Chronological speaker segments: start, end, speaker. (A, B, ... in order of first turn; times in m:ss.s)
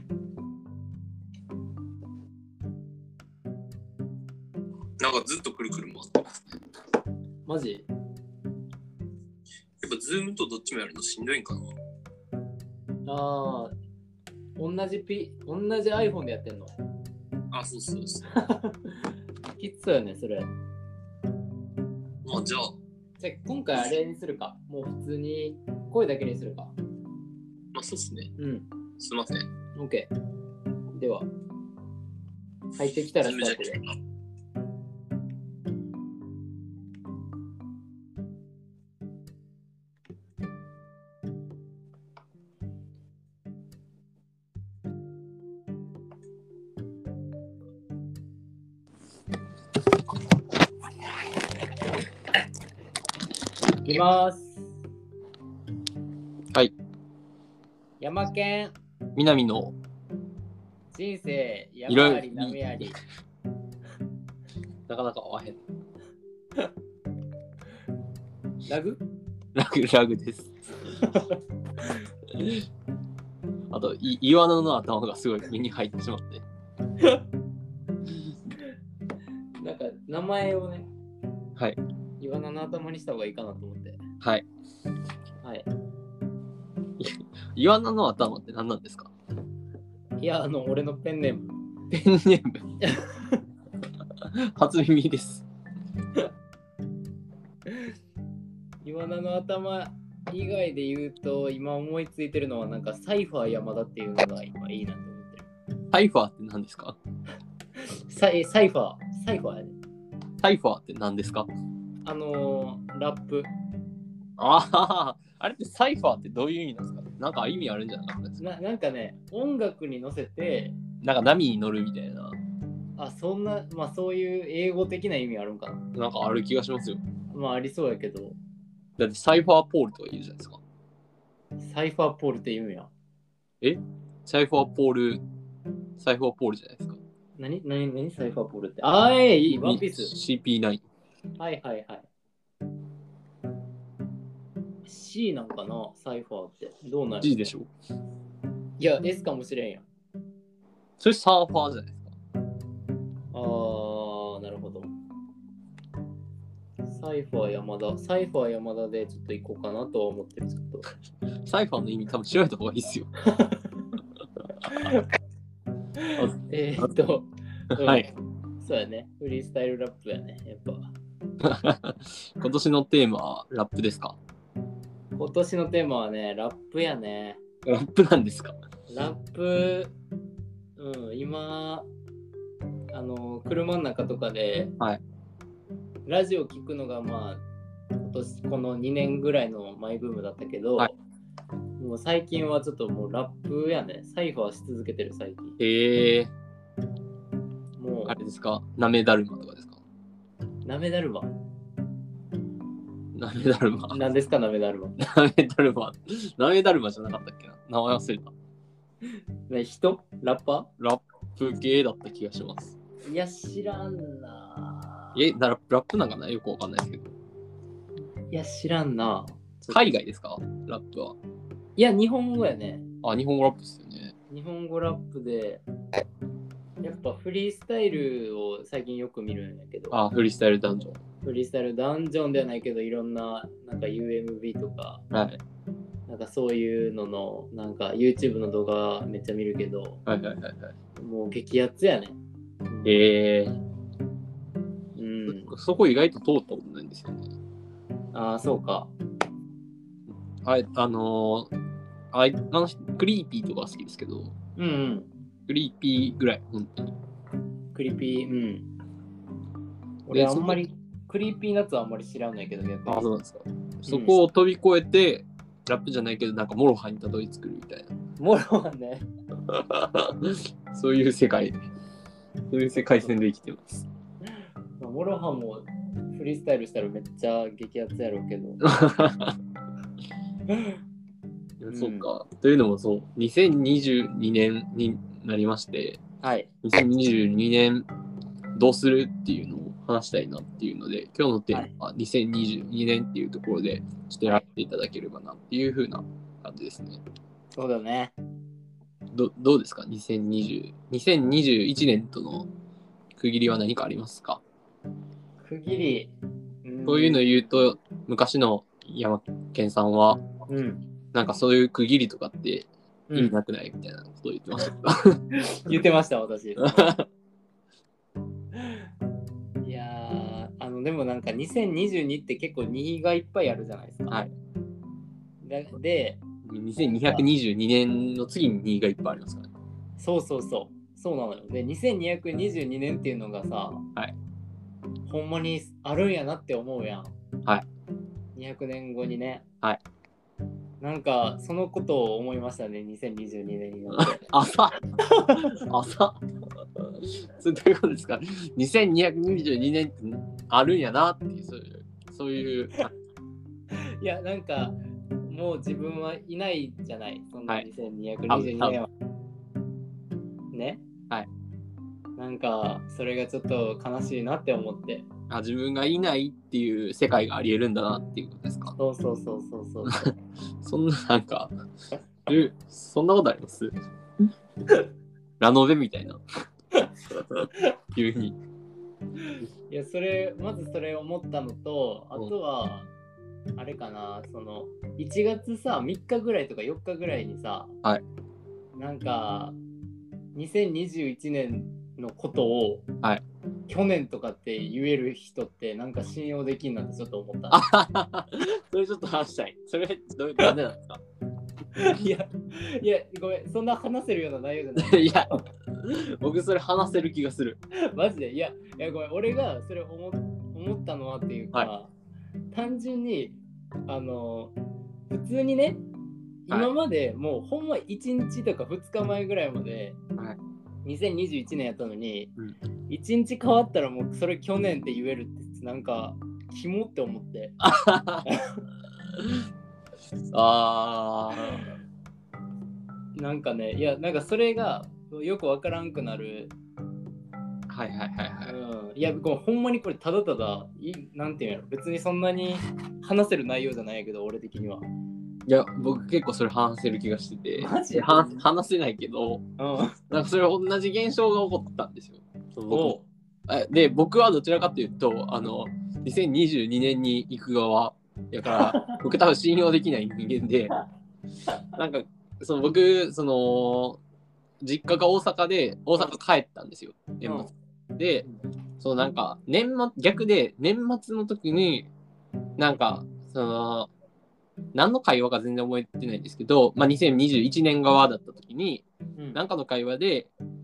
0:05.0-0:06.6 A
0:07.4-0:07.9 B
0:09.8-0:11.6 A
0:13.0-0:13.7 B
0:14.6-0:16.7 B
0:17.5-0:18.3 A
0:18.3-0:19.0 B
0:19.6-0:20.5 B
0:22.2-0:22.8 A
0:23.2-0:26.7 B
0:27.7-0:28.3 A
0:28.4-0:28.7 B
0:29.0-0:29.5 A
0:29.8-0:30.1 B
0:30.9-0:31.3 B
0:32.8-0:33.8 B
0:33.2-0:33.9 A
0:53.8-0:54.7 B
0:58.0-0:58.7 B
0:59.2-0:59.7 A
1:00.9-1:03.0 B
1:01.9-1:02.9 A
1:04.9-1:05.6 A
1:08.6-1:09.0 B
1:09.5-1:10.6 A
1:10.9-1:11.9 B
1:13.7-1:16.4 A
1:19.6-1:20.9 B
1:22.2-1:24.0 B
1:24.2-1:24.4 A
1:27.0-1:29.1 A
1:30.2-1:31.6 B
1:31.9-1:32.7 A
1:32.8-1:33.4 B
1:34.2-1:35.4 A
1:38.8-1:45.4 B
1:45.9-1:47.0 A
1:48.1-1:49.8 B
1:50.4-1:51.5 A
1:52.0-1:53.5 B
1:54.4-1:58.4 A
1:58.4-2:00.8 B
2:01.0-2:02.3 A
2:03.0-2:05.8 B
2:05.9-2:07.0 A
2:07.3-2:08.4 B
2:09.0-2:10.6 A
2:11.6-2:12.9 B
2:13.6-2:15.2 A
2:16.0-2:17.0 A
2:17.4-2:20.1 B
2:19.5-2:20.8 A
2:21.4-2:22.1 B
2:24.8-2:27.4 B
2:27.2-2:27.7 A
2:28.8-2:29.8 B
2:31.0-2:32.1 A
2:33.3-2:34.9 B
2:36.9-2:40.8 B
2:41.4-2:43.1 A
2:43.2-2:43.6 B
2:44.6-2:45.0 B
2:46.0-2:48.1 B
2:46.2-2:46.9 A
2:47.7-2:48.1 A
2:48.6-2:50.9 B
2:51.4-2:54.2 A
2:55.2-2:57.4 B
2:57.6-2:58.6 A
2:58.9-2:59.9 B
3:00.8-3:01.9 B
3:02.9-3:04.7 B
3:06.0-3:07.4 B
3:08.0-3:11.0 B
3:11.8-3:15.6 B
3:15.6-3:16.3 A
3:17.8-3:18.2 B
3:18.1-3:19.8 A
3:20.6-3:21.3 B
3:23.1-3:24.0 A
3:23.9-3:25.0 B
3:25.0-3:28.3 A
3:29.5-3:30.7 B
3:30.8-3:32.8 A
3:33.0-3:35.2 B
3:35.1-3:37.1 A
3:38.3-3:39.8 B
3:39.7-3:41.2 A
3:41.8-3:42.8 B
3:43.0-3:44.1 A
3:44.3-3:45.6 B
3:46.8-3:50.0 B
3:49.9-3:51.0 A
3:51.2-3:55.0 B
3:55.1-3:55.4 A
3:56.1-4:00.0 B
4:00.0-4:00.7 A
4:01.0-4:02.2 B
4:02.8-4:03.6 A
4:05.0-4:05.5 B
4:05.3-4:07.3 A
4:08.1-4:08.9 B
4:10.4-4:11.5 A
4:12.1-4:14.3 A
4:14.6-4:15.1 B
4:15.5-4:16.9 A
4:17.7-4:18.6 B
4:20.1-4:23.1 B
4:20.1-4:20.6 A
4:22.9-4:27.9 A
4:23.9-4:24.2 B
4:28.2-4:29.1 B
4:29.5-4:31.5 A
4:32.5-4:33.8 A
4:34.8-4:38.6 B
4:38.6-4:39.4 A
4:40.5-4:40.8 B
4:41.6-4:46.0 A
4:41.7-4:42.1 B
4:46.2-4:46.5 B
4:46.6-4:47.8 A
4:48.5-4:57.0 A
4:57.5-4:58.1 B
4:59.1-5:02.5 A
5:03.2-5:04.4 A
5:05.4-5:07.3 B
5:06.8-5:10.3 A
5:10.5-5:10.8 B
5:11.1-5:15.8 A
5:13.1-5:13.3 B
5:15.3-5:16.9 B
5:16.6-5:17.0 A
5:19.6-5:24.2 B
5:25.4-5:26.2 B
5:26.4-5:29.5 A
5:26.8-5:27.3 B
5:30.0-5:33.8 B
5:35.1-5:37.1 B
5:38.4-5:39.4 B
5:40.8-5:44.3 B
5:43.9-5:44.8 A
5:45.0-5:45.6 B
5:45.3-5:46.2 A
5:46.8-5:52.9 A
5:53.7-5:54.8 B
5:55.3-5:58.9 B
5:58.3-5:58.8 A
6:00.5-6:00.8 B
6:02.2-6:05.1 B
6:05.3-6:08.7 A
6:08.8-6:10.1 B
6:09.8-6:11.5 A
6:12.2-6:14.2 A
6:15.4-6:16.2 A
6:17.1-6:18.4 A
6:19.2-6:22.9 B
6:23.6-6:27.7 B
6:28.7-6:29.6 B
6:30.3-6:32.9 B
6:33.7-6:37.6 B
6:37.5-6:41.0 A
6:41.7-6:45.4 B
6:44.8-6:47.6 A
6:47.7-6:51.9 B
6:52.5-6:54.5 B
6:55.1-6:55.8 B
6:56.5-7:00.0 B
7:00.8-7:02.3 B
7:02.9-7:07.5 B
7:07.6-7:08.3 A
7:08.3-7:08.6 B
7:10.3-7:11.7 A
7:13.2-7:16.5 B
7:17.7-7:18.5 A
7:18.4-7:24.8 B
7:25.5-7:29.4 A
7:27.6-7:28.4 B
7:29.6-7:30.0 B
7:30.1-7:40.7 A
7:32.7-7:33.0 B
7:38.5-7:39.0 B
7:41.8-7:44.0 A
7:44.6-7:48.2 A
7:48.8-7:51.9 A
7:52.6-7:53.9 A
7:54.7-8:00.3 A
7:59.2-7:59.4 B